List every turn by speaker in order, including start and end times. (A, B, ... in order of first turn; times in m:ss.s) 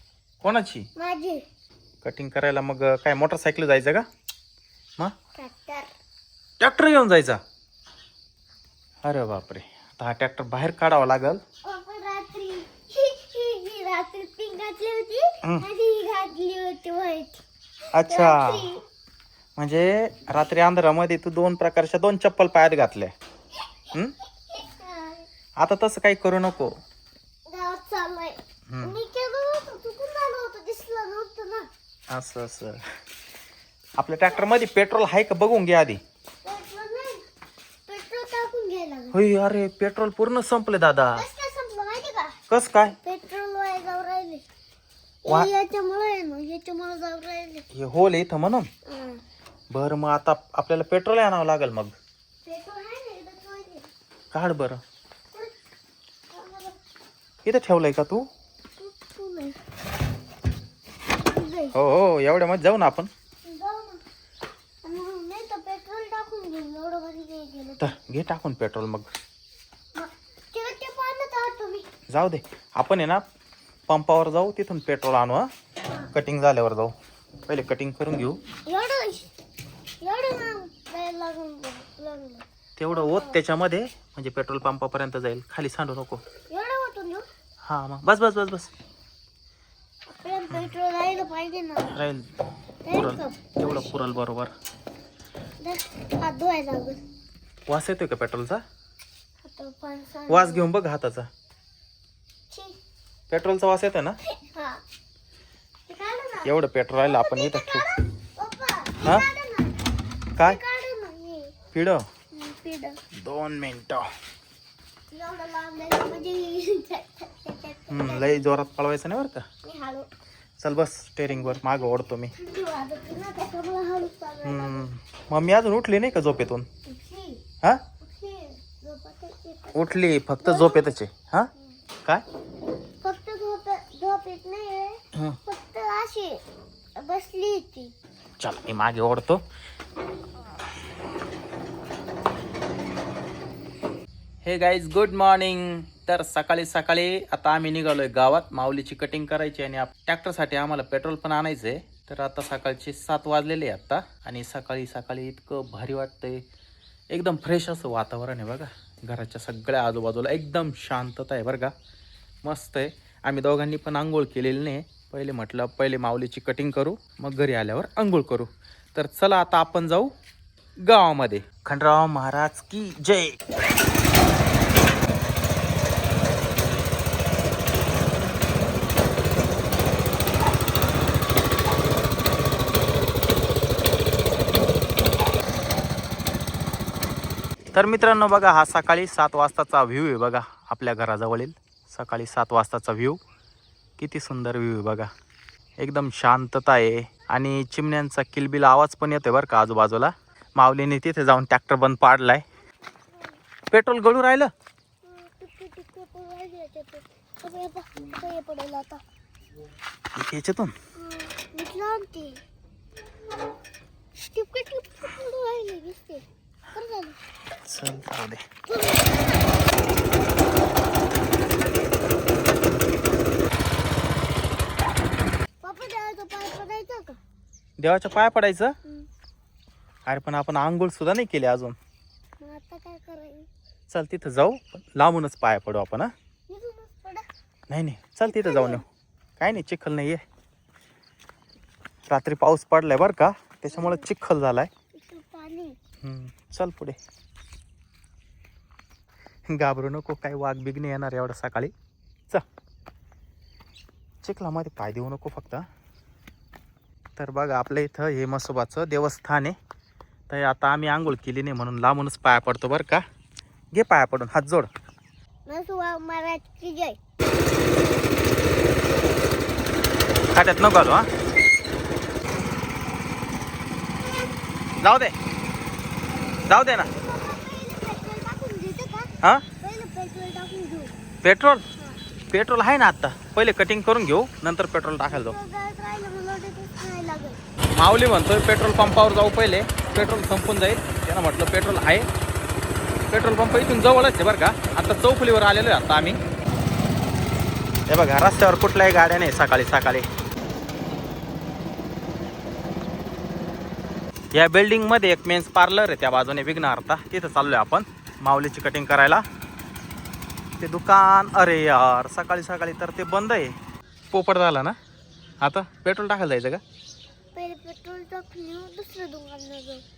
0:00.4-0:00.9 A
0:01.0-0:01.4 B
0:02.0-0:04.0 A
0:05.4-0:05.9 B
0:06.6-0:07.4 A
0:09.0-0:11.4 A
0:11.6-0:17.4 B
0:17.9-0:18.7 A
0:18.0-0:18.8 B
0:19.6-0:23.1 A
0:24.5-0:25.2 B
0:25.6-0:26.8 A
0:27.5-0:31.7 B
0:28.7-0:29.0 A
0:32.1-0:32.8 A
0:34.0-0:36.0 A
0:36.4-0:37.2 B
0:37.9-0:39.2 B
0:39.1-0:41.2 A
0:41.1-0:42.3 B
0:42.5-0:43.0 A
0:43.0-0:44.4 B
0:45.2-0:47.6 B
0:47.7-0:48.7 A
0:48.8-0:49.2 B
0:49.7-0:51.9 A
0:52.4-0:53.9 B
0:54.3-0:54.8 A
0:56.3-0:56.8 B
0:57.4-0:58.3 A
0:58.8-0:59.6 B
1:01.2-1:01.7 B
1:01.7-1:03.1 A
1:03.4-1:04.0 B
1:04.8-1:07.8 B
1:07.8-1:09.1 A
1:10.0-1:11.9 B
1:12.1-1:13.2 A
1:13.9-1:15.5 A
1:16.1-1:16.9 A
1:17.5-1:18.4 A
1:18.6-1:19.3 B
1:20.0-1:23.4 B
1:22.8-1:26.2 A
1:26.5-1:27.3 B
1:27.6-1:28.7 A
1:30.1-1:32.0 B
1:31.9-1:32.3 A
1:32.8-1:34.0 B
1:32.9-1:34.5 A
1:35.6-1:37.0 B
1:37.7-1:38.6 A
1:39.4-1:40.7 B
1:40.3-1:41.3 A
1:42.5-1:42.8 B
1:43.3-1:44.2 A
1:44.3-1:44.8 B
1:45.9-1:49.8 B
1:46.4-1:47.8 A
1:50.4-1:51.6 B
1:51.7-1:52.0 A
1:52.3-1:53.0 B
1:53.2-1:54.1 A
1:55.1-1:58.5 B
1:57.9-1:59.4 A
1:59.6-2:00.1 B
2:00.6-2:02.3 A
2:01.4-2:01.8 B
2:02.3-2:04.9 B
2:04.4-2:06.7 A
2:06.9-2:07.4 B
2:08.0-2:10.9 B
2:09.7-2:11.5 A
2:13.0-2:16.4 B
2:17.0-2:17.9 B
2:18.4-2:19.4 A
2:24.4-2:36.4 A
2:37.1-2:41.7 A
2:42.4-2:50.1 A
2:50.8-2:53.4 A
3:07.7-3:13.2 A
3:14.0-3:15.1 A
3:15.8-3:22.4 A
3:23.7-3:24.5 A
3:25.0-3:29.0 B
3:30.2-3:30.7 A
3:31.0-3:32.4 B
3:34.2-3:37.2 B
3:37.6-3:38.4 A
3:38.7-3:39.7 B
3:45.6-3:47.2 B
3:47.8-3:48.8 A
3:50.0-3:51.8 A
3:52.4-3:53.5 B
3:53.9-3:56.1 A
3:56.5-3:57.3 B
3:57.7-3:58.8 A
3:58.2-3:58.8 B
3:59.4-4:00.2 A
4:02.1-4:04.7 A
4:03.8-4:04.0 B
4:04.9-4:05.8 B
4:06.0-4:07.0 A
4:09.5-4:11.7 A
4:14.2-4:15.6 A
4:17.2-4:19.5 A
4:20.3-4:23.0 A
4:23.7-4:24.7 A
4:25.4-4:27.0 B
4:30.3-4:31.0 A
4:34.8-4:35.1 A
4:36.5-4:36.9 A
4:36.9-4:40.9 B
4:41.2-4:41.6 A
4:42.3-4:45.3 A
4:45.1-4:47.4 B
4:47.8-4:52.1 A
4:53.1-4:56.2 A
4:57.9-5:00.0 A
5:04.3-5:09.2 A
5:10.6-5:13.5 A
5:14.1-5:14.8 A
5:15.4-5:16.6 A
5:17.3-5:19.8 B